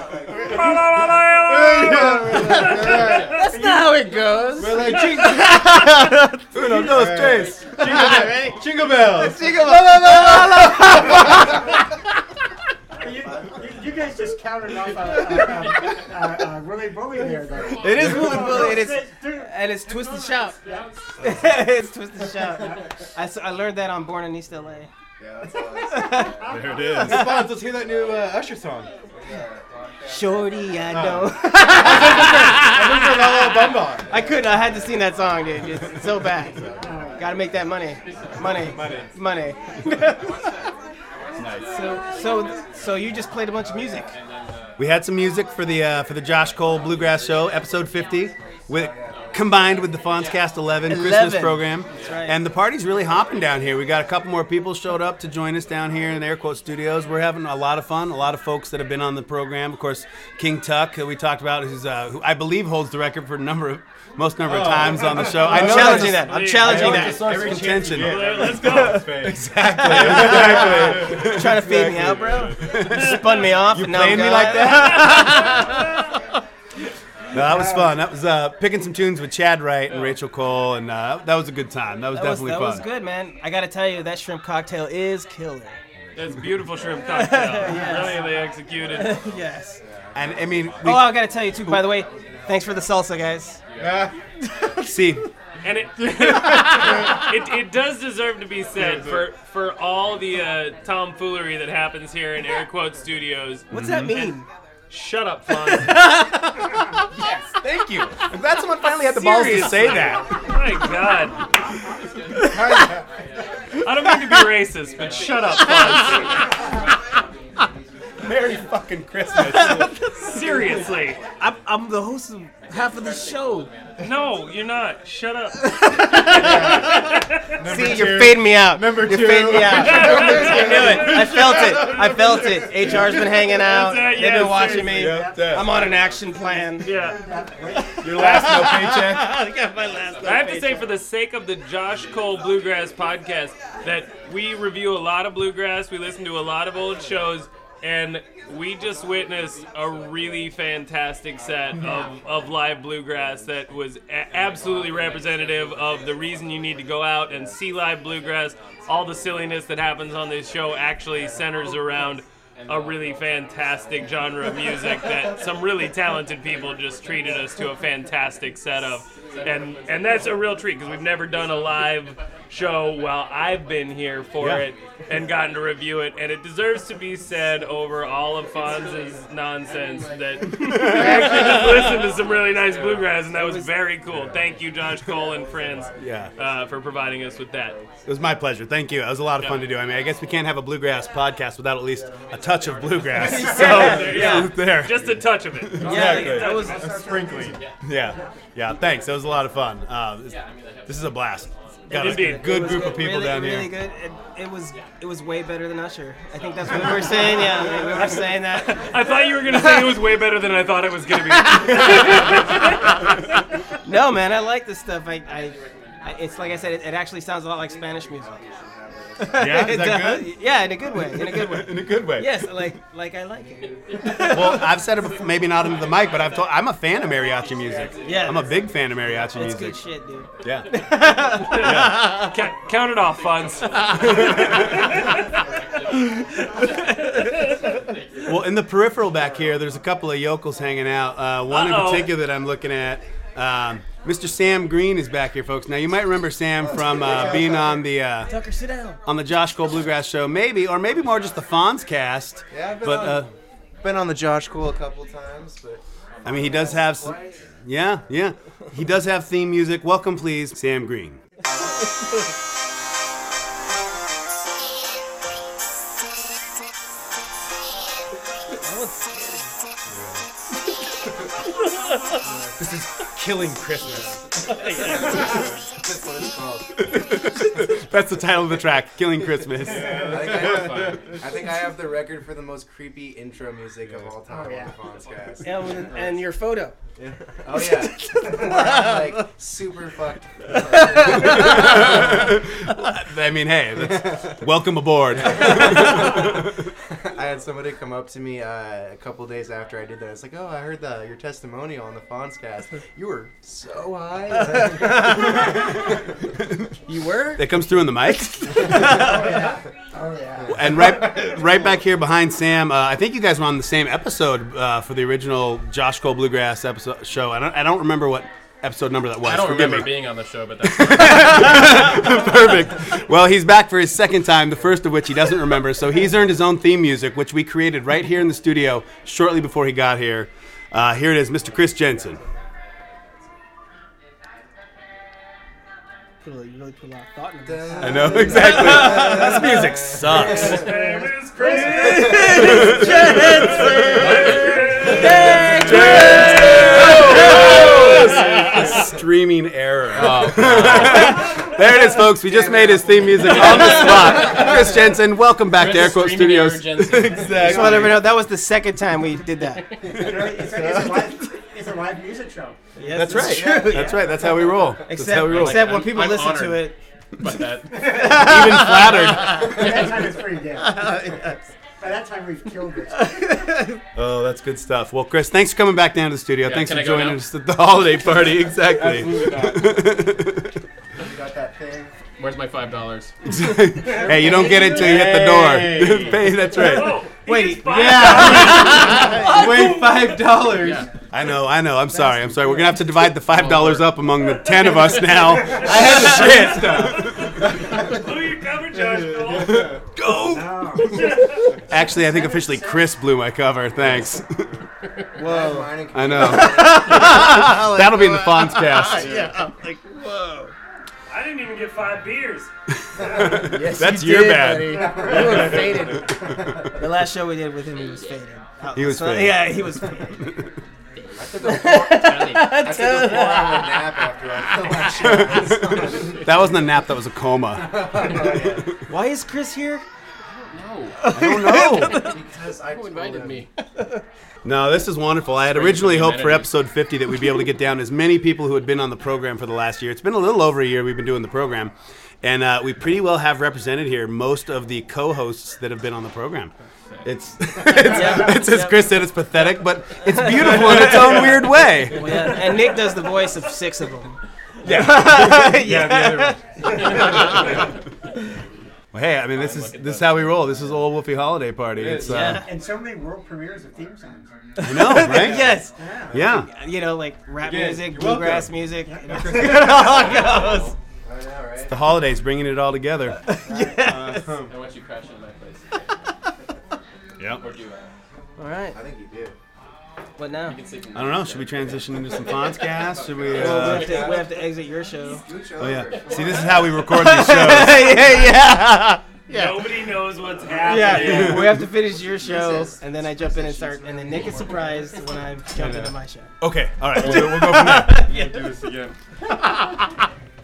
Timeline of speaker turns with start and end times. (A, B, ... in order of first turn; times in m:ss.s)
0:00.5-0:03.2 A
0:01.4-0:03.3 B
0:02.7-0:04.1 C
0:03.1-0:06.4 D
0:04.5-0:05.6 B
0:06.5-0:08.1 E
0:06.5-0:09.6 B
0:08.0-0:08.6 D
0:09.3-0:11.3 D
0:09.6-0:10.8 E
0:13.0-0:21.4 C
0:17.8-0:20.6 D
0:21.2-0:24.9 D
0:25.9-0:26.3 D
0:26.0-0:27.1 C
0:26.5-0:28.9 B
0:27.0-0:27.5 D
0:30.1-0:32.6 D
0:30.9-0:34.2 B
0:34.1-0:36.6 D
0:36.8-0:37.3 C
0:37.2-0:40.3 D
0:38.0-0:38.6 F
0:38.5-0:39.1 B
0:40.1-0:40.4 F
0:41.4-0:42.5 F
0:41.4-0:41.7 B
0:41.6-0:44.1 D
0:44.2-0:44.7 F
0:44.8-1:08.3 E
0:49.2-0:50.5 F
0:50.9-0:52.4 D
0:51.9-0:52.2 F
1:04.4-1:12.3 B
1:05.4-1:07.6 D
1:05.5-1:09.1 A
1:08.4-1:09.1 D
1:09.2-1:15.6 E
1:09.8-1:15.5 D
1:17.3-1:22.8 E
1:19.9-1:20.1 A
1:22.1-1:25.8 D
1:26.1-1:29.2 A
1:27.1-1:28.3 D
1:28.9-1:29.8 D
1:30.1-1:31.3 E
1:30.8-1:33.6 D
1:33.8-1:34.1 B
1:34.6-1:35.2 D
1:34.8-1:35.2 E
1:35.6-1:44.3 A
1:36.0-1:37.2 B
1:38.8-1:39.2 B
1:43.7-1:44.4 D
1:43.7-1:44.2 E
1:44.9-1:46.2 A
1:45.7-1:46.5 D
1:47.6-1:50.3 E
1:49.0-1:51.4 A
1:52.5-1:52.9 B
1:53.8-1:56.4 A
1:58.2-1:59.9 E
1:59.4-2:00.4 D
2:00.2-2:01.2 A
2:01.4-2:03.7 D
2:03.4-2:03.6 F
2:04.0-2:07.3 A
2:05.8-2:07.0 D
2:06.3-2:07.1 B
2:07.6-2:13.3 B
2:07.6-2:16.9 D
2:09.7-2:12.0 A
2:13.6-2:15.2 A
2:14.7-2:15.7 B
2:15.0-2:15.4 C
2:16.8-2:17.2 A
2:17.2-2:18.4 C
2:18.0-2:19.4 B
2:18.0-2:20.9 D
2:20.2-3:07.8 A
2:54.4-2:54.6 E
3:00.7-3:01.1 E
3:03.4-3:03.7 D
3:06.0-3:06.3 E
3:08.0-3:15.8 E
3:13.2-3:14.5 D
3:14.1-3:16.8 A
3:15.8-3:17.6 B
3:15.8-3:16.8 D
3:16.1-3:17.6 C
3:17.8-3:23.7 E
3:20.2-3:21.4 F
3:21.9-3:22.5 A
3:21.9-3:28.9 D
3:28.0-3:33.0 A
3:33.8-3:38.3 D
3:39.2-3:44.6 D
3:39.3-3:40.2 B
3:39.4-3:40.2 E
3:41.2-3:42.4 E
3:44.2-3:49.8 E
3:45.9-3:46.3 F
3:47.5-3:47.8 F
3:48.0-3:48.6 D
3:49.3-3:51.9 D
3:50.4-3:50.8 E
3:51.5-3:52.1 E
3:51.5-3:54.9 A
3:53.6-3:54.6 F
3:55.2-3:58.6 F
3:58.2-4:08.3 E
4:01.5-4:02.1 A
4:06.8-4:07.6 G
4:08.3-4:09.0 D
4:09.0-4:13.3 E
4:12.5-4:13.2 G
4:13.8-4:17.3 G
4:16.2-4:21.2 E
4:28.6-4:29.4 D
4:32.6-4:34.2 E
4:35.7-4:36.7 G
4:36.9-4:40.1 E
4:39.7-4:41.2 B
4:39.9-4:45.8 G
4:44.3-4:44.7 C
4:45.4-4:46.7 D
4:47.0-4:52.1 G
4:47.6-4:49.0 D
4:50.7-4:51.7 D
4:51.3-4:56.3 E
4:53.9-4:54.3 G
4:55.2-4:56.2 G
4:57.1-5:05.3 G
5:04.5-5:05.3 D
5:06.9-5:07.5 D
5:07.4-5:09.1 E
5:08.6-5:09.3 D
5:08.8-5:11.2 C
5:10.5-5:20.0 E
5:19.2-5:22.5 F
5:20.7-5:32.2 E
5:36.2-5:39.5 D
5:37.4-5:40.6 G
5:37.8-5:40.7 E
5:40.3-5:42.6 A
5:41.4-5:41.9 C
5:41.4-5:48.0 D
5:41.9-5:42.3 G
5:42.3-5:43.6 E
5:43.1-5:46.8 A
5:43.9-5:44.8 F
5:44.8-5:58.0 E
5:49.9-5:51.2 F
5:52.2-5:54.8 G
5:53.2-5:54.4 F
5:55.5-5:58.0 F
5:57.4-5:59.7 D
5:59.9-6:02.6 C
6:02.8-6:04.1 D
6:02.9-6:05.9 E
6:03.1-6:04.3 G
6:04.8-6:06.8 D
6:05.1-6:08.5 F
6:07.7-6:08.7 C
6:07.9-6:09.8 E
6:08.3-6:08.6 D
6:09.0-6:09.4 F
6:09.3-6:10.9 C
6:10.8-6:11.1 D
6:11.8-6:13.2 C
6:13.0-6:13.7 D
6:13.9-6:20.5 E
6:16.4-6:17.3 F
6:18.7-6:19.8 B
6:21.0-6:21.9 G
6:22.2-6:23.1 F
6:23.3-6:27.0 E
6:23.9-6:26.4 B
6:26.5-6:30.2 A
6:27.2-6:29.5 D
6:27.6-6:30.9 B
6:30.5-6:30.8 F
6:31.1-6:37.3 E
6:33.1-6:34.0 F
6:34.2-6:39.7 A
6:35.5-6:37.7 B
6:39.0-6:39.8 B
6:39.9-6:41.0 E
6:40.1-6:42.9 C
6:40.9-6:41.4 A
6:41.7-6:44.5 E
6:45.2-6:50.5 D
6:45.2-6:46.9 G
6:45.9-6:49.1 E
6:51.1-6:52.5 A
6:53.0-6:55.7 E
6:53.6-6:55.9 G
6:53.7-6:56.0 D
6:56.8-7:00.2 D
6:58.7-6:59.7 E
7:01.2-7:06.2 G
7:01.4-7:03.9 D
7:01.6-7:02.6 F
7:05.2-7:08.3 E
7:07.6-7:08.6 G
7:08.9-7:09.8 D
7:10.4-7:11.0 F
7:11.0-7:12.1 D
7:11.1-7:12.1 E
7:11.9-7:13.5 G
7:12.6-7:13.5 F
7:14.4-7:26.5 E
7:15.4-7:16.5 F
7:27.0-7:32.3 E
7:27.6-7:28.8 D
7:30.2-7:34.2 D
7:30.6-7:31.1 B
7:34.6-7:36.4 B
7:34.7-7:36.4 D
7:37.0-7:37.4 F
7:38.9-7:42.4 E
7:39.2-7:40.6 F
7:41.7-7:42.2 B
7:42.0-7:42.4 D
7:42.3-7:44.3 C
7:44.6-7:50.7 D
7:44.6-7:46.5 E
7:45.7-7:46.3 C
7:47.4-7:48.5 B
7:48.9-7:49.8 C
7:49.1-7:49.9 B
7:49.7-7:50.7 F
7:51.0-7:51.7 G
7:51.7-7:53.2 E
7:53.3-7:54.3 D
7:53.5-7:53.9 C
7:54.0-7:55.7 F
7:54.1-7:54.5 G
7:57.2-7:57.4 E
7:57.3-7:57.9 F
7:58.4-7:58.8 D
7:58.7-7:59.3 G
8:00.2-8:00.6 D
8:00.4-8:04.4 F
8:00.9-8:04.1 E
8:03.3-8:05.2 D
8:03.5-8:04.2 G
8:05.1-8:06.8 G
8:05.6-8:08.2 E
8:06.1-8:06.6 F
8:06.9-8:09.5 D
8:09.3-8:11.6 A
8:10.6-8:16.3 D
8:11.0-8:11.6 E
8:11.9-8:14.6 G
8:15.6-8:15.9 B
8:16.4-8:18.0 E
8:16.9-8:18.4 D
8:17.0-8:18.9 B